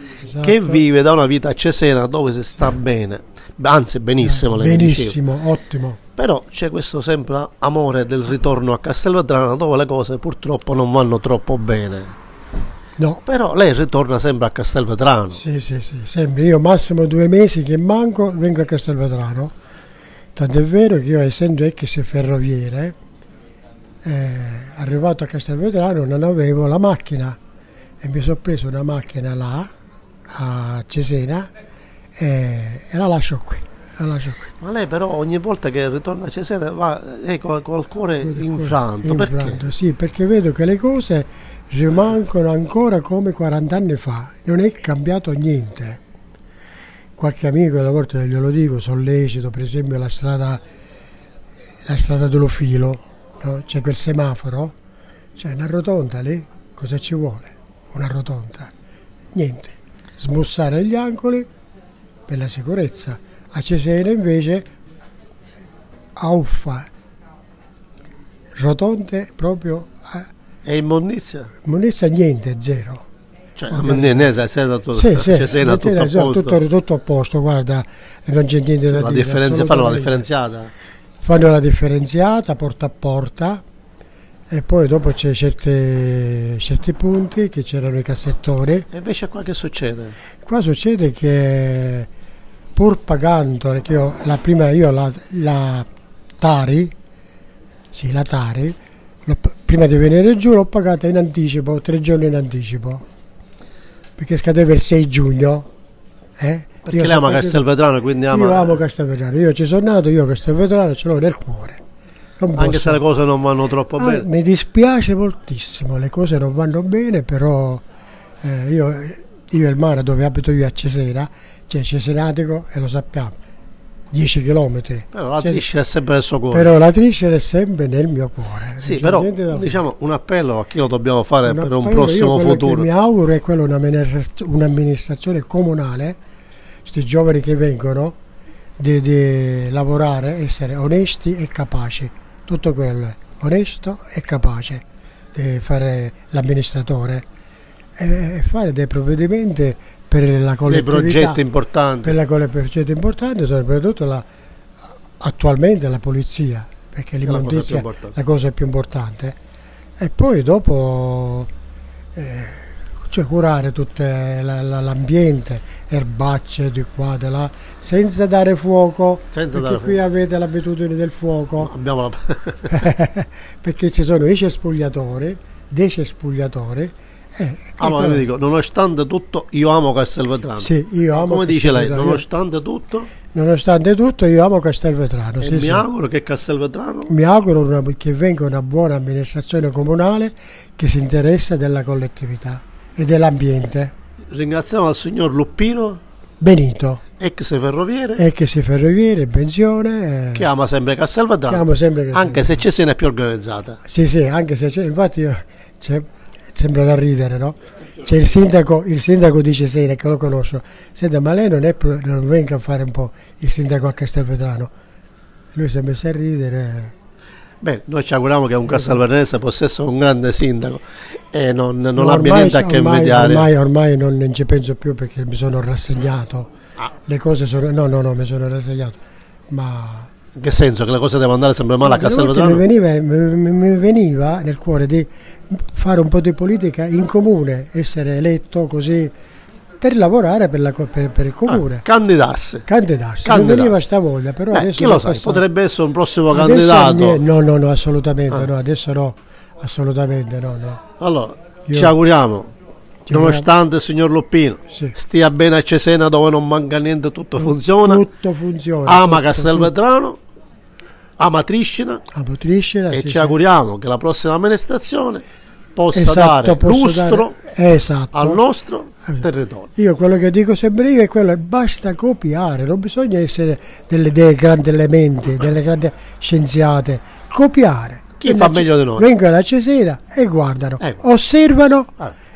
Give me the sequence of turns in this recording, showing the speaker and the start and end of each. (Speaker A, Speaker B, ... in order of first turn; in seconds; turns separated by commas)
Speaker A: 0.2-0.8, Speaker B: 0.4-5.2, Speaker A: 4.2-6.0, Speaker B: 6.2-12.1, Speaker B: 13.2-15.4, Speaker A: 15.3-19.5, Speaker A: 20.4-22.9, Speaker A: 24.0-27.4, Speaker A: 28.0-29.7, Speaker A: 30.3-31.5, Speaker A: 32.1-34.4, Speaker B: 34.6-39.6, Speaker A: 38.2-46.0, Speaker A: 47.2-50.6, Speaker A: 51.9-54.7, Speaker A: 55.4-58.7, Speaker A: 59.3-61.5, Speaker A: 62.3-64.7, Speaker A: 66.2-66.9, Speaker A: 68.6-70.3, Speaker B: 70.6-71.5, Speaker A: 71.6-73.0, Speaker B: 73.5-76.6, Speaker A: 73.7-74.3, Speaker A: 74.9-80.2, Speaker B: 78.9-80.7, Speaker A: 81.2-83.6, Speaker A: 84.5-88.9, Speaker B: 88.9-90.2, Speaker A: 90.5-92.1, Speaker A: 92.8-95.9, Speaker A: 96.4-96.9, Speaker A: 97.9-103.0, Speaker A: 104.2-105.7, Speaker A: 106.4-107.6, Speaker B: 106.8-108.8, Speaker A: 108.3-111.8, Speaker A: 112.4-113.0, Speaker B: 112.5-114.2, Speaker A: 114.0-117.8, Speaker A: 118.4-123.3, Speaker A: 124.1-125.6, Speaker B: 125.1-126.7, Speaker A: 126.5-129.8, Speaker B: 128.8-132.9, Speaker A: 131.4-136.2, Speaker A: 136.8-138.2, Speaker A: 138.8-147.2, Speaker A: 148.0-151.4, Speaker B: 150.7-152.1, Speaker A: 152.0-154.2, Speaker A: 155.2-159.3, Speaker B: 157.2-158.1, Speaker A: 160.0-161.5, Speaker A: 162.1-171.7, Speaker B: 169.3-170.0, Speaker B: 171.6-172.8, Speaker A: 172.7-178.2, Speaker B: 177.8-183.1, Speaker A: 180.6-182.2, Speaker A: 183.3-185.8, Speaker B: 185.4-187.1, Speaker A: 187.1-193.9, Speaker B: 194.3-196.0, Speaker A: 196.4-197.0, Speaker B: 197.2-198.2, Speaker A: 198.2-200.5, Speaker B: 200.3-203.8, Speaker A: 201.5-202.7, Speaker A: 203.8-214.7, Speaker A: 215.5-216.9, Speaker B: 217.6-223.5, Speaker A: 218.7-219.0, Speaker A: 221.9-226.5, Speaker A: 227.1-229.0, Speaker A: 229.5-230.1, Speaker B: 230.3-232.6, Speaker A: 231.8-239.1, Speaker A: 239.8-241.8, Speaker B: 241.5-242.7, Speaker A: 242.7-245.4, Speaker B: 243.2-243.8, Speaker B: 244.5-247.2, Speaker A: 246.3-250.8, Speaker B: 251.0-252.5, Speaker A: 251.7-251.9, Speaker A: 253.1-253.5, Speaker B: 253.1-258.0, Speaker A: 254.7-254.9, Speaker A: 257.4-259.7, Speaker B: 258.9-260.2, Speaker B: 261.2-262.0, Speaker A: 262.1-263.4, Speaker B: 262.9-265.2, Speaker B: 265.8-267.4, Speaker A: 265.9-268.4, Speaker B: 268.1-269.7, Speaker A: 269.1-281.9, Speaker B: 278.2-279.1